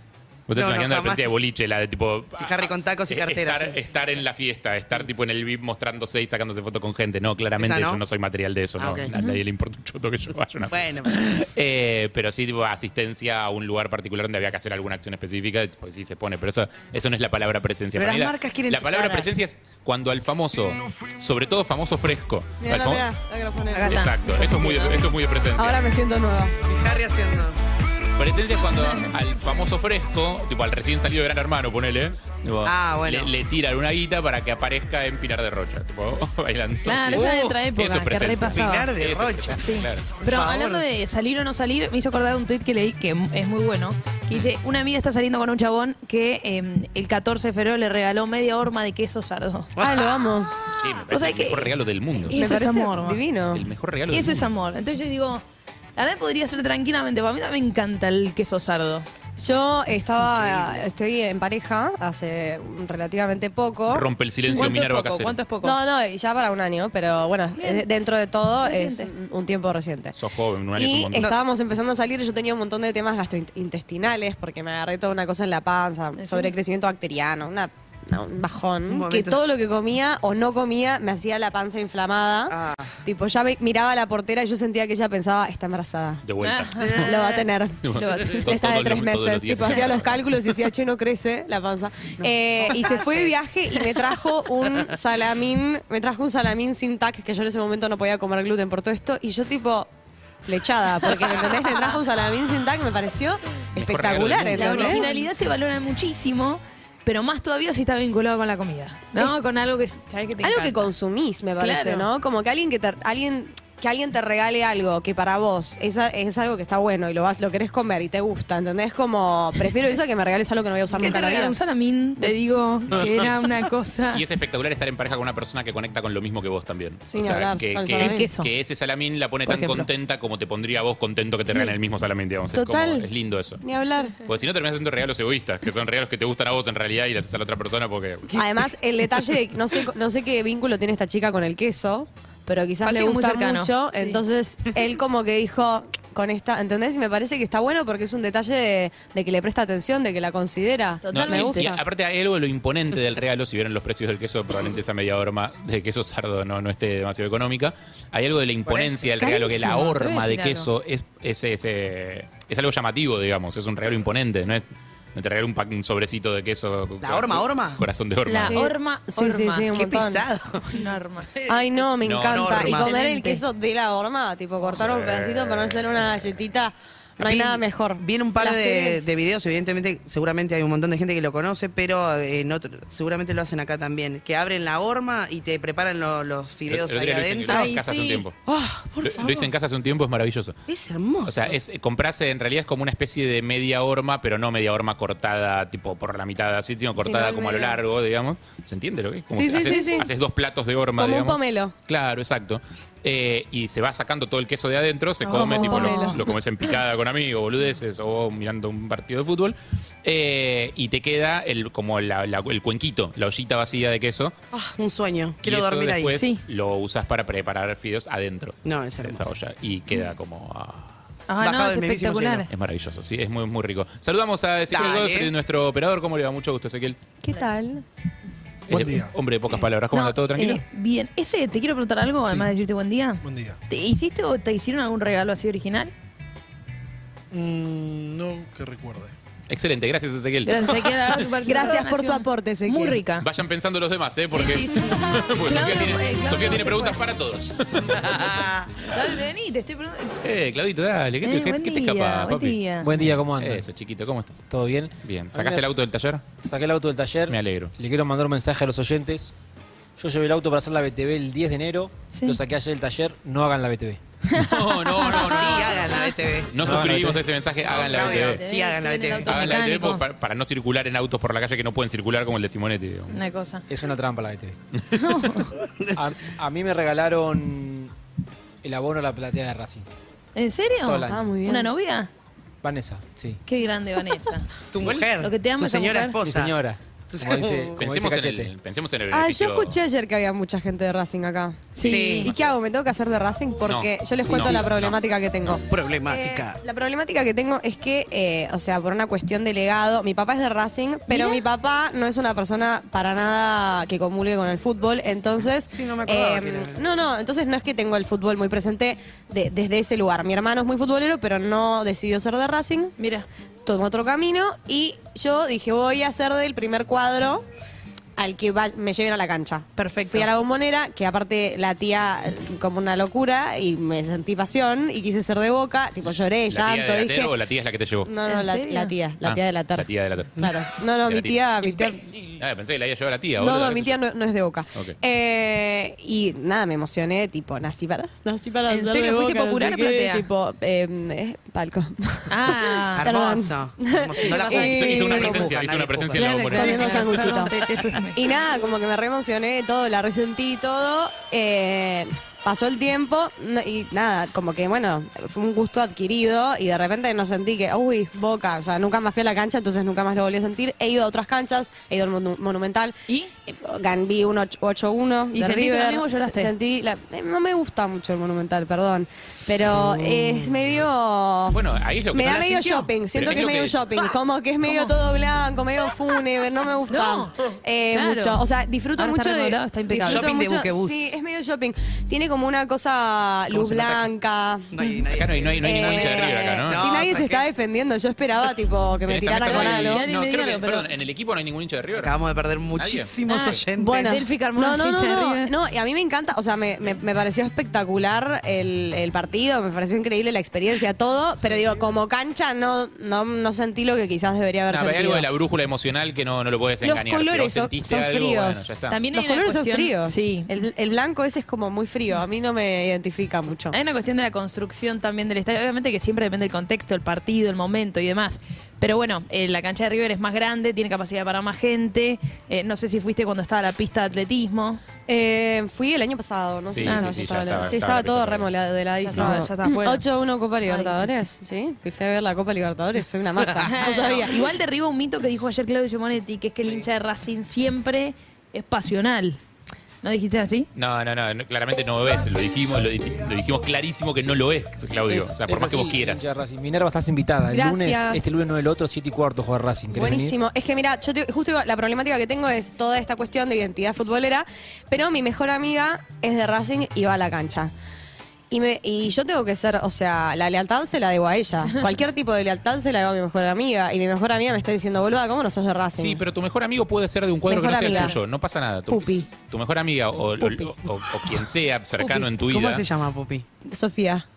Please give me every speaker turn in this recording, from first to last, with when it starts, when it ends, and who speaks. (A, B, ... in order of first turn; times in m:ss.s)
0:00.5-0:23.1 A
0:00.5-0:01.3 B
0:02.3-0:03.8 B
0:07.6-0:08.0 B
0:08.8-0:09.1 B
0:09.1-0:09.4 C
0:10.7-0:11.1 B
0:18.0-0:19.3 B
0:22.6-0:24.5 D
0:23.7-0:25.0 C
0:23.9-0:25.8 A
0:25.6-0:26.6 D
0:26.6-0:27.6 B
0:28.2-0:40.1 A
0:28.8-0:29.1 C
0:32.6-0:33.3 B
0:36.8-0:38.9 C
0:37.1-0:37.6 B
0:38.5-0:39.6 B
0:39.6-0:49.7 C
0:40.2-0:40.8 B
0:49.8-0:50.2 B
0:49.8-0:50.5 D
0:50.8-0:52.4 A
0:51.1-0:51.7 C
0:52.3-0:53.2 C
0:52.3-0:53.6 D
0:53.5-0:54.4 A
0:54.1-0:55.4 C
0:56.0-0:59.0 C
0:59.4-1:04.8 D
1:03.9-1:05.3 A
1:04.5-1:05.8 C
1:05.6-1:10.1 D
1:07.6-1:07.8 C
1:08.6-1:09.1 C
1:10.2-1:11.3 A
1:10.8-1:26.2 D
1:16.2-1:16.5 C
1:18.9-1:19.4 B
1:22.5-1:23.0 B
1:26.2-1:27.2 A
1:26.4-1:27.1 C
1:26.8-1:27.2 B
1:27.0-1:39.9 D
1:27.8-1:30.3 A
1:27.9-1:28.4 C
1:32.2-1:33.3 B
1:40.4-1:45.1 D
1:43.7-1:45.0 A
1:44.6-1:50.9 C
1:50.4-2:01.5 D
1:51.6-1:52.1 C
2:00.9-2:04.2 C
2:03.0-2:03.3 B
2:04.1-2:13.6 A
2:07.1-2:08.3 D
2:07.9-2:08.5 C
2:09.5-2:09.9 C
2:12.5-2:13.0 D
2:13.6-2:14.2 D
2:14.2-2:18.4 A
2:18.3-2:31.8 D
2:22.8-2:24.2 C
2:31.0-2:31.7 C
2:31.1-2:48.6 A
2:39.1-2:40.7 C
2:47.0-2:47.8 B
2:48.2-2:49.7 C
2:48.4-2:50.2 D
2:49.7-2:50.8 B
2:50.7-2:51.3 C
2:51.3-2:51.7 B
2:51.5-2:59.1 D
2:52.0-2:52.9 A
2:52.3-2:52.9 B
2:52.6-2:53.4 C
2:54.7-2:56.1 A
2:57.2-3:07.7 B
3:06.7-3:08.4 A
3:07.5-3:08.2 C
3:08.4-3:09.5 B
3:09.0-3:10.6 A
3:10.7-3:11.6 B
3:11.2-3:34.3 A
3:17.0-3:17.8 D
3:19.3-3:20.1 D
3:21.0-3:21.7 D
3:25.3-3:26.2 D
3:25.3-3:26.1 C
3:34.5-3:36.2 B
3:35.4-3:40.9 A
3:36.2-3:36.4 C
3:38.6-3:39.2 B
3:41.3-3:42.5 C
3:41.4-3:42.5 B
3:42.5-3:47.0 A
3:44.7-3:45.3 B
3:47.2-3:47.8 D
3:48.7-3:50.6 A
3:48.7-3:49.1 E
3:49.9-3:55.9 C
3:52.2-3:52.5 E
3:53.2-3:53.6 E
3:57.3-3:59.1 E
3:59.5-4:00.8 A
4:00.4-4:03.2 C
4:01.4-4:03.0 D
4:03.2-4:09.0 A
4:04.3-4:07.0 C
4:08.2-4:08.6 B
4:08.8-4:10.2 C
4:10.2-4:12.6 A
4:11.2-4:12.9 C
4:12.8-4:13.6 F
4:13.4-4:14.4 A
4:14.5-4:15.6 F
4:15.0-4:16.2 A
4:16.4-4:19.3 F
4:17.3-4:17.7 A
4:20.0-4:24.0 F
4:22.1-4:22.4 C
4:24.3-4:26.1 C
4:24.3-4:25.9 A
4:25.2-4:26.9 B
4:26.5-4:28.4 A
4:26.6-4:27.2 F
4:27.6-4:29.5 B
4:27.8-4:30.0 C
4:29.2-4:33.2 A
4:33.1-4:33.6 C
4:33.7-4:34.6 F
4:35.0-4:35.6 C
4:35.8-4:36.0 B
4:35.9-4:37.9 F
4:38.6-4:39.8 F
4:40.3-4:42.1 C
4:40.8-4:41.3 F
4:41.1-4:41.7 D
4:42.6-4:43.4 F
4:43.4-4:44.5 C
4:44.7-4:46.6 B
4:45.2-4:46.2 C
4:46.2-4:48.5 F
4:47.1-4:47.8 B
4:47.8-4:49.8 A
4:49.1-5:12.9 D
4:51.7-4:52.3 C
4:51.8-4:52.3 B
4:52.2-4:52.6 A
4:53.7-4:55.0 A
4:54.3-4:54.7 B
4:55.7-4:56.6 B
5:01.1-5:01.4 C
5:05.7-5:06.8 B
5:13.0-5:13.2 C
5:13.6-5:17.4 D
5:18.2-5:27.3 D
5:19.8-5:20.3 C
5:26.5-5:28.1 A
5:28.0-5:32.0 D
5:28.3-5:28.9 C
5:29.2-5:30.5 A
5:31.0-5:31.4 A
5:32.4-5:34.0 A
5:33.4-5:45.5 D
5:38.7-5:40.2 C
5:42.3-5:43.1 C
5:43.0-5:46.3 B
5:44.4-5:45.1 C
5:44.5-5:47.1 A
5:46.1-5:48.2 C
5:46.5-5:47.6 D
5:48.1-6:02.9 D
6:03.5-6:11.6 D
6:05.3-6:06.5 C
6:09.7-6:10.5 B
6:11.5-6:13.8 A
6:12.1-6:24.7 D
6:14.6-6:14.9 C
6:16.9-6:18.4 C
6:19.0-6:20.3 C
6:20.0-6:21.1 B
6:23.5-6:24.1 B
6:24.7-6:27.5 B
6:25.1-6:26.8 A
6:25.6-6:30.0 D
6:29.0-6:32.2 A
6:29.4-6:30.9 C
6:31.9-6:34.1 B
6:32.7-6:33.1 A
6:33.2-6:35.5 C
6:33.8-6:45.2 D
6:44.7-6:49.0 A
6:46.8-6:53.7 D
6:48.9-6:50.5 C
6:53.7-7:04.8 C
7:05.1-7:14.5 D
7:06.7-7:08.5 A
7:06.8-7:07.2 C
7:09.0-7:10.0 C
7:10.7-7:11.1 C
7:13.6-7:19.4 C
7:20.0-7:20.7 C
7:20.7-7:26.2 A
7:25.1-7:30.4 F
7:27.5-7:28.2 D
7:29.9-7:37.7 D
7:38.5-7:46.2 D
7:46.0-7:52.8 A
7:47.5-7:48.2 D
7:48.9-7:49.2 D
7:50.4-7:50.8 D
7:52.0-7:53.4 B
7:53.6-7:54.2 D